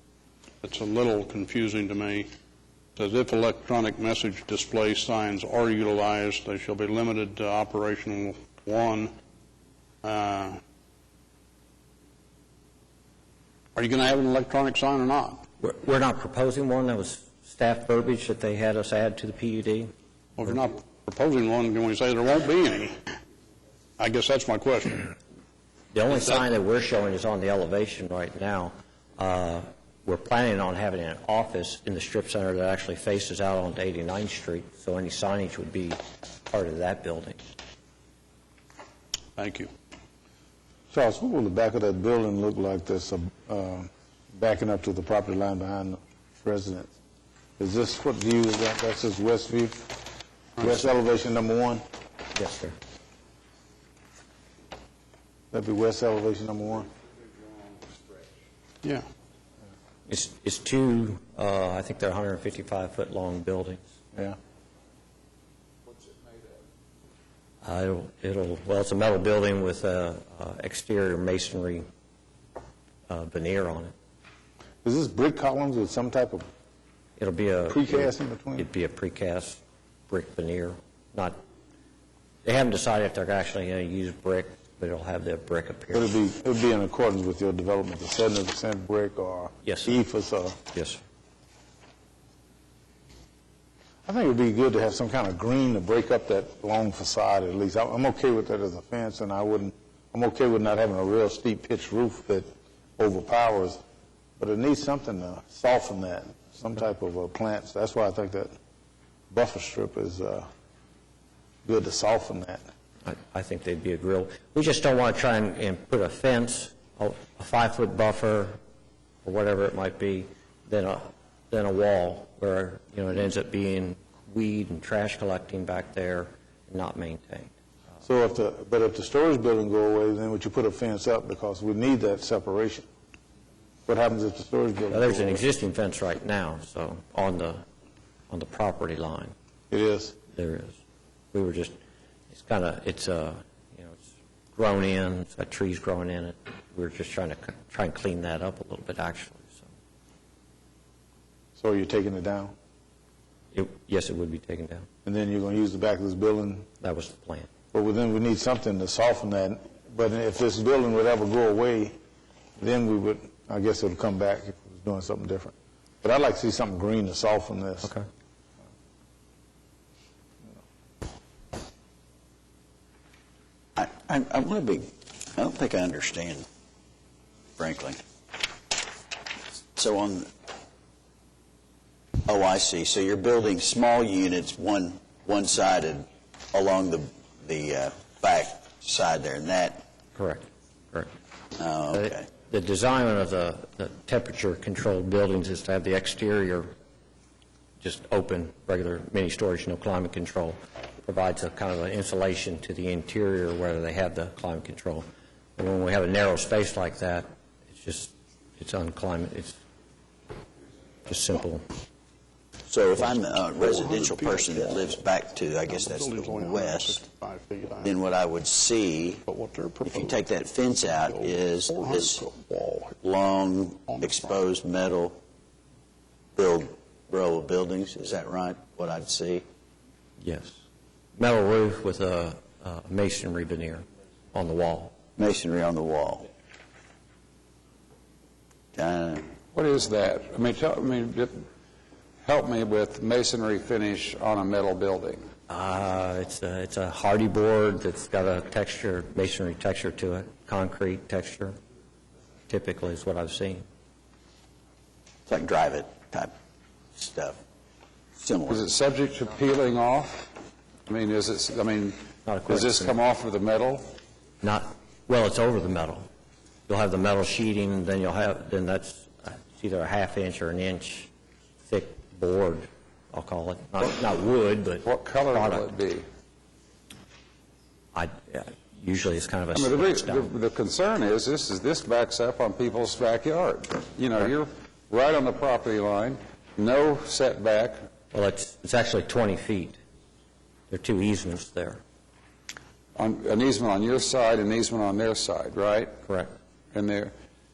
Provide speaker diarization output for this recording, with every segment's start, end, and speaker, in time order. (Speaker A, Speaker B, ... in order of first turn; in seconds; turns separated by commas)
Speaker A: 0.6-2.3, Speaker A: 3.0-9.1, Speaker A: 10.0-10.6, Speaker A: 13.7-15.5, Speaker B: 15.6-19.9, Speaker A: 20.4-23.0, Speaker A: 24.0-25.1, Speaker B: 25.9-37.4, Speaker A: 39.4-39.7, Speaker C: 40.9-46.9, Speaker C: 47.6-49.9, Speaker C: 50.6-51.8, Speaker B: 52.3-52.8, Speaker C: 55.5-56.9, Speaker D: 57.4-58.1, Speaker B: 60.1-63.8, Speaker D: 65.9-66.4, Speaker B: 67.6-71.9, Speaker B: 73.1-73.9, Speaker C: 74.8-76.5, Speaker B: 77.2-81.4, Speaker C: 77.7-78.7, Speaker B: 82.5-86.1, Speaker C: 85.9-90.6, Speaker B: 89.6-90.0, Speaker B: 90.7-91.0, Speaker C: 94.1-103.8, Speaker C: 104.4-108.5, Speaker C: 109.3-110.5, Speaker C: 111.7-112.6, Speaker B: 113.0-118.6, Speaker B: 119.2-127.5, Speaker C: 128.0-132.9, Speaker C: 133.9-135.4, Speaker B: 134.9-137.6, Speaker B: 138.3-139.3, Speaker C: 139.7-140.2, Speaker B: 140.3-140.8, Speaker B: 141.3-141.8, Speaker B: 142.3-149.7, Speaker C: 151.6-152.5, Speaker B: 153.5-154.9, Speaker C: 155.1-156.7, Speaker B: 156.8-157.5, Speaker C: 157.7-161.9, Speaker C: 162.6-167.9, Speaker E: 173.8-176.4, Speaker E: 177.6-178.0, Speaker E: 179.7-180.3, Speaker E: 182.2-189.8, Speaker B: 190.1-191.1, Speaker E: 191.6-192.3, Speaker B: 191.9-196.8, Speaker B: 197.8-205.1, Speaker B: 205.6-209.6, Speaker B: 211.1-211.6, Speaker E: 212.7-217.0, Speaker A: 213.0-214.9, Speaker A: 215.7-217.9, Speaker E: 217.8-219.2, Speaker A: 219.3-220.2, Speaker E: 219.8-222.2, Speaker A: 220.8-222.9, Speaker E: 223.0-225.2, Speaker A: 223.9-224.4, Speaker E: 226.3-229.4, Speaker B: 230.2-230.6, Speaker B: 231.2-235.0, Speaker E: 235.2-236.3, Speaker E: 238.8-239.3, Speaker D: 239.5-241.4, Speaker D: 242.2-245.3, Speaker B: 245.5-251.6, Speaker B: 252.5-253.6, Speaker E: 255.3-256.3, Speaker E: 256.9-257.4, Speaker E: 258.1-258.7, Speaker D: 258.5-260.3, Speaker D: 260.9-263.9, Speaker B: 262.2-262.9, Speaker B: 264.4-266.1, Speaker B: 266.7-271.1, Speaker B: 271.6-275.7, Speaker D: 274.8-276.1, Speaker B: 277.9-280.3, Speaker D: 279.5-287.8, Speaker B: 288.1-289.8, Speaker B: 290.7-291.8, Speaker D: 292.9-295.9, Speaker B: 296.0-296.3, Speaker D: 296.7-297.1